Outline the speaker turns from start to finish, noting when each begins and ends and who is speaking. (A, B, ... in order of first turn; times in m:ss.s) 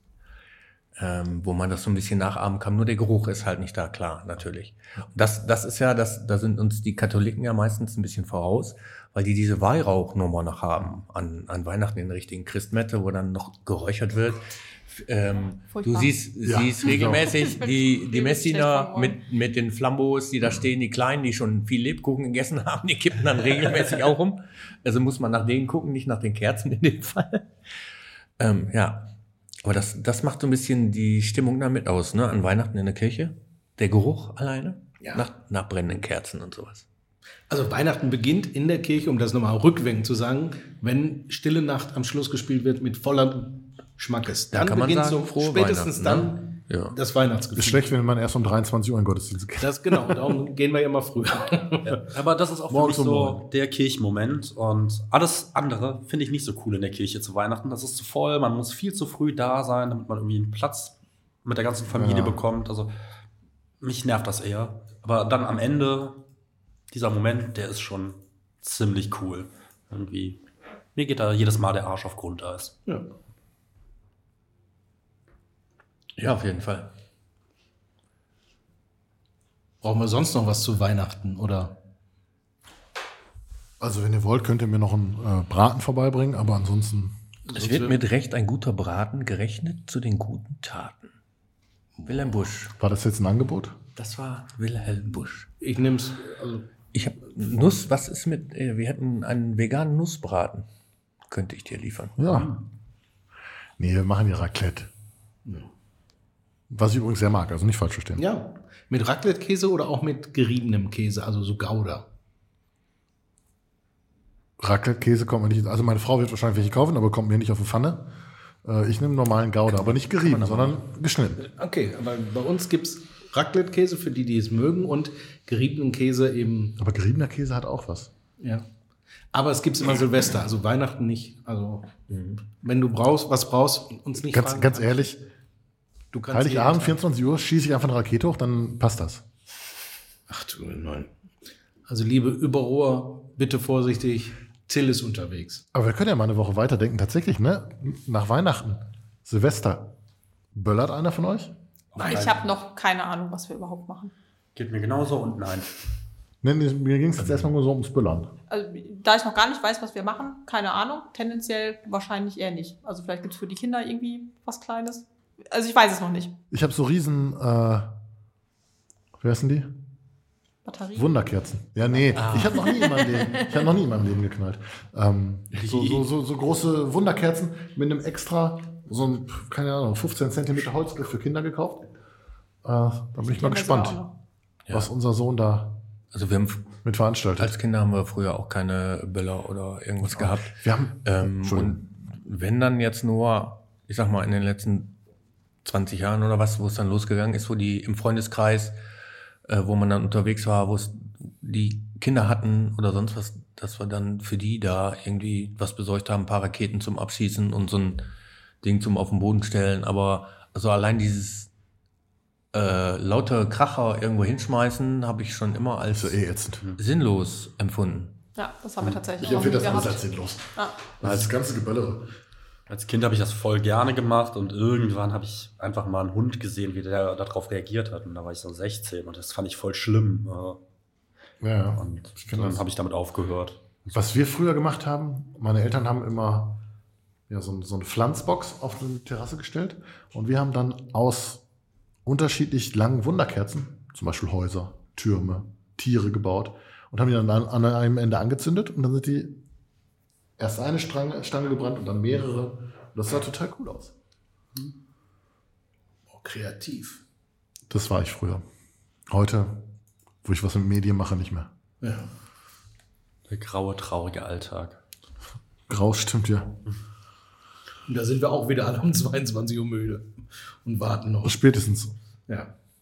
0:01.0-0:27.4 A
0:15.7-0:16.1 B
0:16.4-0:17.4 C
0:17.3-0:19.2 B
0:28.4-0:29.1 A
0:29.6-0:36.8 A
0:35.0-0:35.2 D
0:37.5-0:47.8 D
0:44.5-0:46.9 A
0:47.5-0:50.3 C
0:49.6-0:52.0 D
0:51.8-1:02.9 E
0:52.7-0:53.4 C
1:01.9-1:02.4 C
1:03.8-1:06.2 E
1:06.9-1:10.4 E
1:10.9-1:12.8 E
1:16.2-1:16.9 A
1:19.8-1:21.8 D
1:23.8-1:27.1 C
1:27.5-1:28.0 D
1:27.5-1:31.1 A
1:32.0-1:32.3 D
1:32.0-1:32.7 A
1:32.8-1:33.8 C
1:34.0-1:35.5 A
1:35.6-1:36.7 D
1:36.9-1:40.7 A
1:41.3-1:42.6 A
1:42.2-1:42.6 C
1:43.8-1:44.9 C
1:46.7-1:48.2 C
1:48.2-1:52.0 D
1:54.6-1:58.1 C
1:58.6-2:01.5 C
1:59.7-2:00.8 A
2:01.4-2:06.8 D
2:06.8-2:08.1 C
2:08.4-2:08.6 D
2:09.3-2:11.9 D
2:12.1-2:12.4 A
2:12.6-2:15.0 D
2:14.2-2:15.2 C
2:16.1-2:17.0 D
2:16.3-2:19.2 C
2:20.3-2:21.1 D
2:21.9-2:25.6 D
2:25.7-2:29.9 C
2:30.5-2:31.5 C
2:32.0-2:32.3 D
2:32.0-2:32.3 E
2:32.0-2:34.1 B
2:34.5-2:35.7 E
2:36.4-2:38.3 C
2:38.5-2:46.3 B
2:46.5-2:47.9 C
2:49.2-2:49.7 C
2:50.6-2:51.1 B
2:51.0-3:01.8 C
2:52.1-2:52.7 A
2:52.7-2:53.5 B
2:55.6-2:56.1 E
3:02.6-3:04.0 C
3:03.2-3:04.1 B
3:04.7-3:05.8 C
3:06.1-3:06.8 A
3:06.8-3:07.5 C
3:07.4-3:14.9 A
3:10.0-3:11.8 C
3:15.6-3:18.8 A
3:19.4-3:28.0 A
3:28.6-3:31.5 A
3:32.5-3:36.2 A
3:35.9-3:36.7 C
3:36.8-3:38.2 A
3:38.4-3:40.0 B
3:39.2-3:40.5 C
3:41.0-3:42.1 C
3:42.7-3:50.6 E
3:51.4-3:52.6 C
3:51.8-3:54.0 E
3:53.9-3:56.6 C
3:57.3-4:01.4 C
4:02.0-4:09.4 C
4:10.4-4:13.9 C
4:16.1-4:17.0 D
4:17.7-4:18.4 C
4:19.1-4:19.7 C
4:20.2-4:21.5 C
4:21.8-4:22.1 D
4:23.3-4:24.8 E
4:25.7-4:26.6 C
4:27.9-4:30.1 D
4:30.6-4:31.4 D
4:31.2-4:31.9 C